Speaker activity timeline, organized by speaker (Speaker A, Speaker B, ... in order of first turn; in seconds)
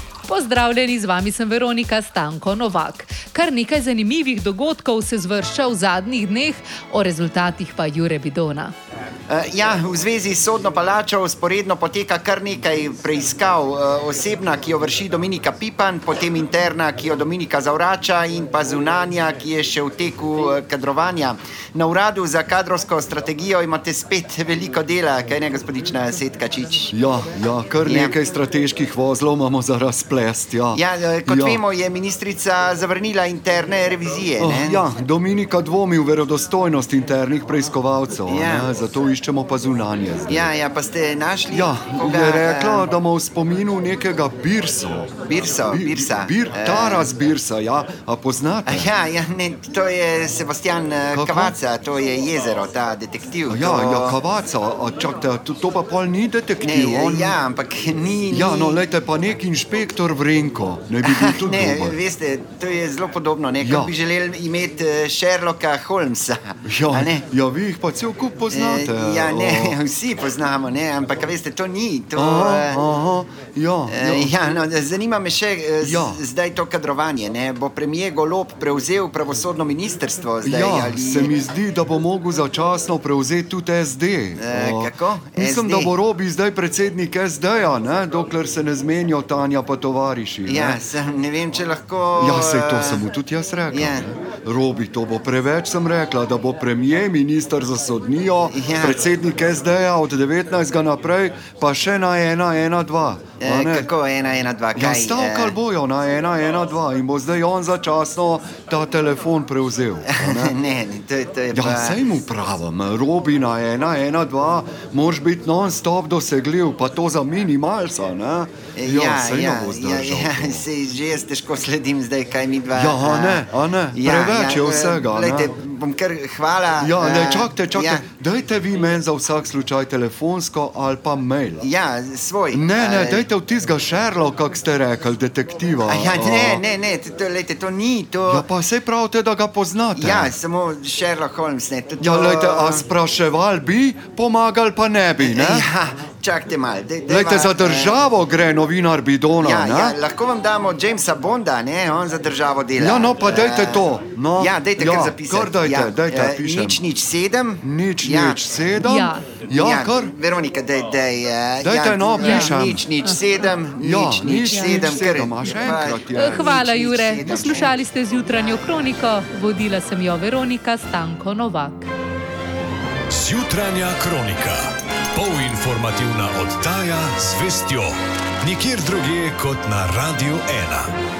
Speaker A: 0.3-8.7, 158.8-159.3, 162.2-162.5, 164.5-171.9
Speaker B: 9.3-26.9, 27.8-28.2, 30.7-34.8, 38.3-38.7, 40.3-42.9, 45.2-47.1, 48.7-54.2, 56.6-58.8, 61.0-67.2, 68.5-72.9, 73.9-81.4, 84.4-85.9, 90.5-93.1, 93.7-94.1, 98.5-99.0, 103.4-105.6, 110.1-112.2, 118.8-128.1, 131.6-133.3, 135.8-138.5, 139.9-142.9, 145.2-148.0, 149.4-158.5, 159.5-168.8
Speaker C: 26.9-31.6, 34.4-40.5, 41.5-48.9, 51.1-51.5, 53.5-57.4, 58.3-62.0, 63.6-63.9, 66.7-69.8, 72.2-74.3, 75.8-76.2, 80.4-90.8, 92.2-103.9, 104.8-110.6, 111.5-120.7, 122.7-125.5, 126.8-131.7, 132.5-136.6, 138.3-140.3, 142.0-145.7, 147.1-150.0, 152.8-156.8, 157.6-160.1, 161.6-162.8, 163.8-166.8
Speaker D: 173.1-180.9